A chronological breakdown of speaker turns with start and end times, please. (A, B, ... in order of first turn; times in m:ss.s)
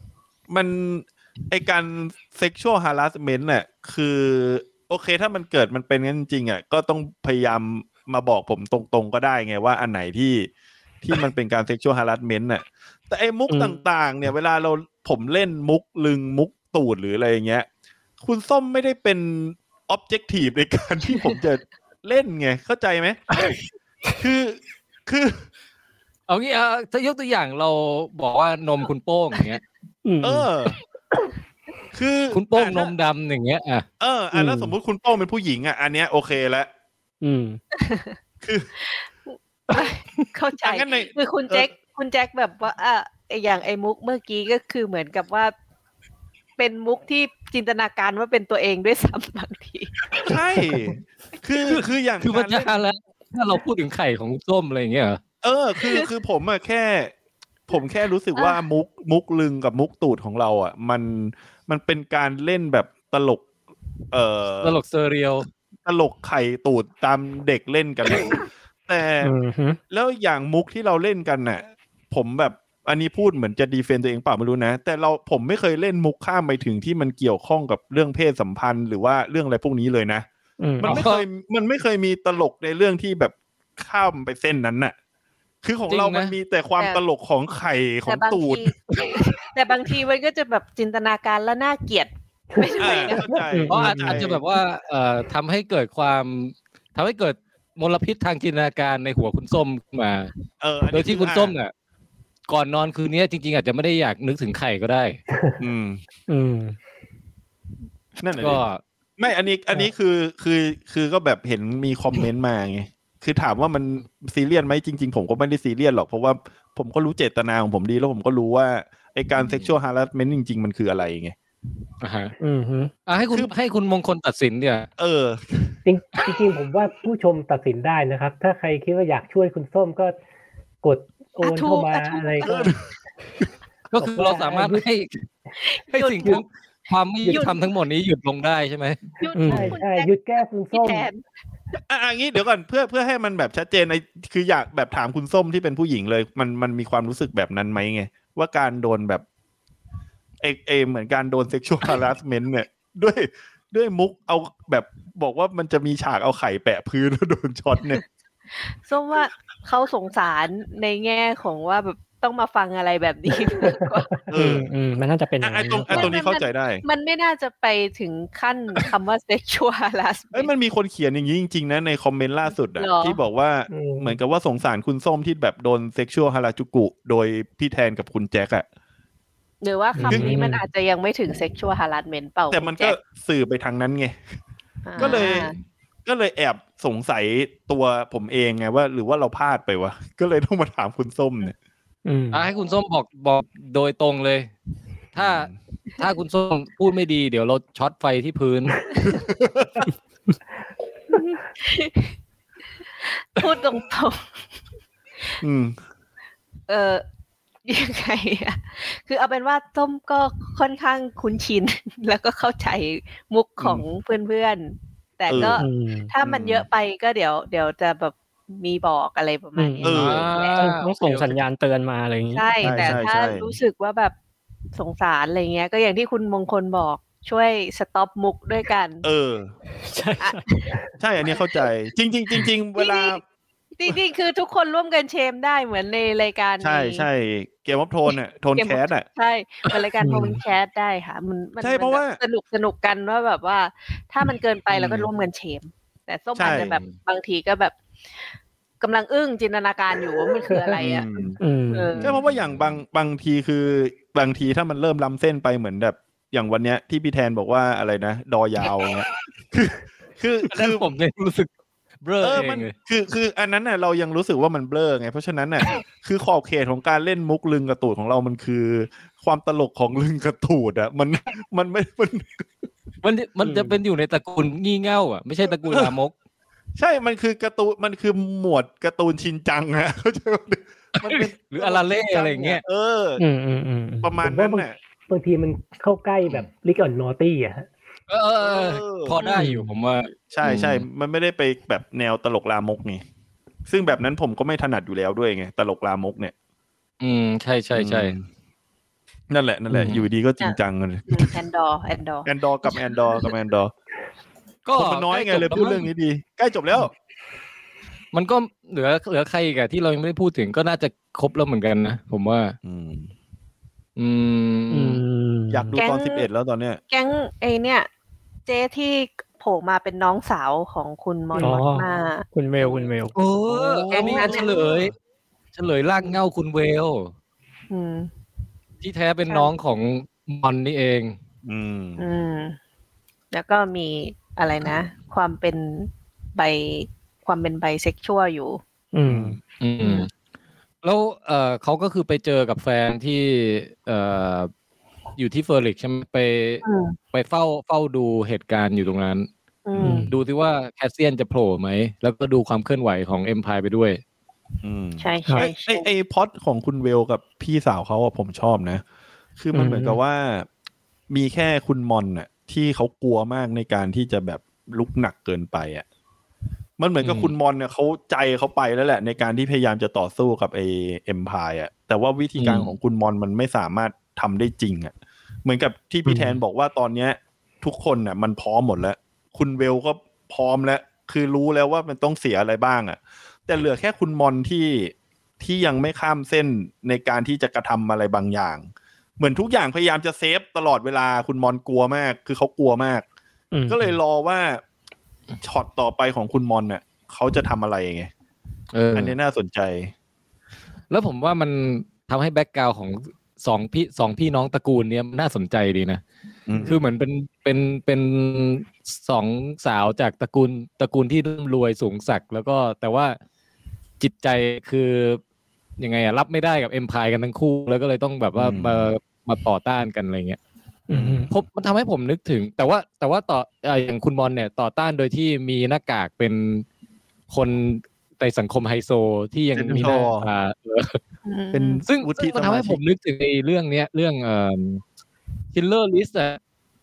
0:00.5-0:10.5 A
0:11.0-0:17.7 A
0:13.5-0:13.8 B
0:18.2-0:23.2 A
0:24.2-0:25.4 A
0:26.3-0:29.6 C
0:30.0-0:30.5 B
0:30.2-0:30.8 A
0:31.9-0:32.9 A
0:32.3-0:33.9 C
0:34.0-0:36.7 A
0:34.3-0:34.8 B
0:37.2-0:37.6 B
0:37.7-0:38.1 D
0:38.4-0:38.7 A
0:39.7-0:45.5 D
0:40.6-0:41.7 A
0:46.6-0:49.9 D
0:50.2-0:52.7 A
0:51.6-0:55.2 C
0:55.4-0:57.1 A
0:57.7-1:03.4 A
0:58.3-0:58.6 D
1:04.1-1:04.8 A
1:04.6-1:05.5 C
1:05.8-1:09.3 A
1:09.2-1:09.8 B
1:09.9-1:20.3 A
1:20.6-1:21.0 B
1:20.8-1:24.9 A
1:20.8-1:21.2 C
1:25.6-1:28.7 A
1:25.9-1:26.4 C
1:28.1-1:33.2 D
1:29.0-1:29.2 C
1:32.5-1:33.3 E
1:32.8-1:34.4 A
1:33.5-1:34.2 B
1:33.7-1:40.3 C
1:40.6-1:41.6 A
1:40.9-1:41.7 C
1:42.5-1:45.2 C
1:45.6-1:46.0 A
1:46.3-1:46.8 B
1:48.2-1:48.6 A
1:48.4-1:48.8 C
1:49.2-2:01.4 A
1:59.4-1:59.7 C
2:02.0-2:02.3 C
2:02.4-2:02.9 B
2:03.1-2:04.9 C
2:05.0-2:05.8 A
2:05.8-2:10.2 E
2:10.8-2:12.8 E
2:11.4-2:12.7 D
2:12.4-2:12.8 A
2:13.9-2:15.2 C
2:14.0-2:14.9 E
2:15.6-2:16.4 D
2:15.9-2:19.0 C
2:16.2-2:16.4 E
2:17.3-2:17.6 D
2:19.2-2:20.1 D
2:19.4-2:19.8 B
2:19.4-2:21.1 E
2:20.7-2:21.2 D
2:21.9-2:29.2 A
2:30.4-2:38.0 A
2:38.9-2:44.1 D
2:44.3-2:44.7 A
2:44.3-2:46.2 B
2:45.4-2:46.8 A
2:45.9-2:50.5 D
2:50.3-2:58.6 A
2:52.8-2:53.2 D
2:53.7-2:54.2 E
2:59.6-3:03.0 D
2:59.9-3:00.6 B
3:00.0-3:00.4 A
3:02.5-3:04.2 A
3:04.9-3:05.5 D
3:05.0-3:05.5 A
3:05.0-3:05.3 C
3:06.1-3:11.6 A
3:12.0-3:12.4 B
3:12.3-3:14.5 C
3:15.1-3:18.8 C
3:15.2-3:15.6 A
3:19.0-3:19.9 A
3:21.1-3:22.1 D
3:23.2-3:24.2 D
3:25.4-3:25.8 A
3:26.7-3:27.0 D
3:27.6-3:40.6 D
3:33.6-3:33.8 A
3:35.3-3:35.6 A
3:35.4-3:36.1 B
3:36.2-3:36.6 A
3:39.6-3:40.0 B
3:39.8-3:40.2 A
3:39.9-3:41.4 C
3:40.5-3:43.0 B
3:42.3-3:44.1 D
3:42.6-3:43.5 A
3:44.7-3:49.0 D
3:49.0-3:49.5 A
3:49.9-3:50.5 B
3:50.2-3:51.6 D
3:51.0-3:53.2 A
3:52.8-3:53.2 D
3:53.8-3:57.1 D
3:56.6-3:59.0 A
3:58.1-4:07.7 D
4:00.0-4:00.4 B
4:01.6-4:02.2 A
4:04.7-4:05.1 A
4:06.4-4:06.7 A
4:06.4-4:06.9 C
4:08.8-4:11.1 D
4:10.4-4:10.8 E
4:10.8-4:11.4 A
4:11.4-4:12.0 B
4:11.7-4:12.2 D
4:12.0-4:12.8 C
4:12.0-4:20.9 A
4:20.5-4:21.5 C
4:22.0-4:22.7 C
4:22.2-4:32.5 A
4:33.0-4:36.1 C
4:33.4-4:33.8 B
4:35.7-4:35.9 A
4:36.8-4:43.2 A
4:41.0-4:42.6 C
4:43.2-4:44.1 B
4:44.0-4:44.8 A
4:44.2-4:47.7 E
4:48.1-4:50.9 C
4:48.4-4:49.2 A
4:49.4-4:49.7 B
4:50.3-4:53.0 A
4:53.7-4:56.3 A
4:57.0-4:58.2 C
4:57.8-4:58.3 A
4:59.3-5:01.4 A
4:59.7-5:00.1 C
5:01.1-5:03.3 D
5:02.3-5:03.7 A
5:04.6-5:05.9 C
5:04.8-5:06.9 A
5:08.1-5:12.6 C
5:12.6-5:13.1 A
5:14.0-5:15.0 C
5:14.7-5:15.8 B
5:15.5-5:16.8 A
5:15.8-5:16.3 D
5:16.9-5:17.9 D
5:18.5-5:22.2 D
5:21.4-5:23.2 B
5:23.1-5:24.9 C
5:23.5-5:24.5 A
5:23.9-5:24.8 D
5:25.6-5:27.1 C
5:27.7-5:28.1 D
5:28.8-5:31.2 C
5:31.4-5:32.1 A
5:32.0-5:32.6 D
5:33.3-5:38.6 D
5:38.9-5:39.4 B
5:39.1-5:39.4 A
5:39.6-5:40.1 C
5:40.8-5:44.5 C
5:45.2-5:49.3 C
5:46.6-5:47.0 D
5:49.6-5:50.0 D
5:49.8-5:50.1 A
5:49.8-5:50.1 B
5:50.1-5:54.0 C
5:54.6-5:58.8 A
5:55.0-5:55.9 D
5:59.4-6:00.5 A
5:59.5-6:00.0 B
6:01.1-6:05.8 A
6:06.8-6:14.9 A
6:07.0-6:07.3 C
6:12.4-6:12.7 C
6:15.4-6:28.7 A
6:16.1-6:16.4 B
6:29.2-6:33.0 A
6:33.5-6:33.9 B
6:33.7-6:34.6 A
6:35.4-6:38.1 A
6:38.7-6:39.2 C
6:38.9-6:39.9 A
6:40.9-6:46.0 C
6:46.5-6:46.8 A
6:46.6-6:53.2 C
6:54.0-6:55.2 C
6:55.8-7:00.4 C
6:58.4-6:58.9 A
7:00.9-7:01.3 B
7:00.9-7:01.3 A
7:01.3-7:06.6 C
7:07.3-7:11.0 C
7:09.6-7:10.3 A
7:11.3-7:11.8 D
7:11.5-7:12.8 A
7:11.9-7:14.8 C
7:15.5-7:16.4 C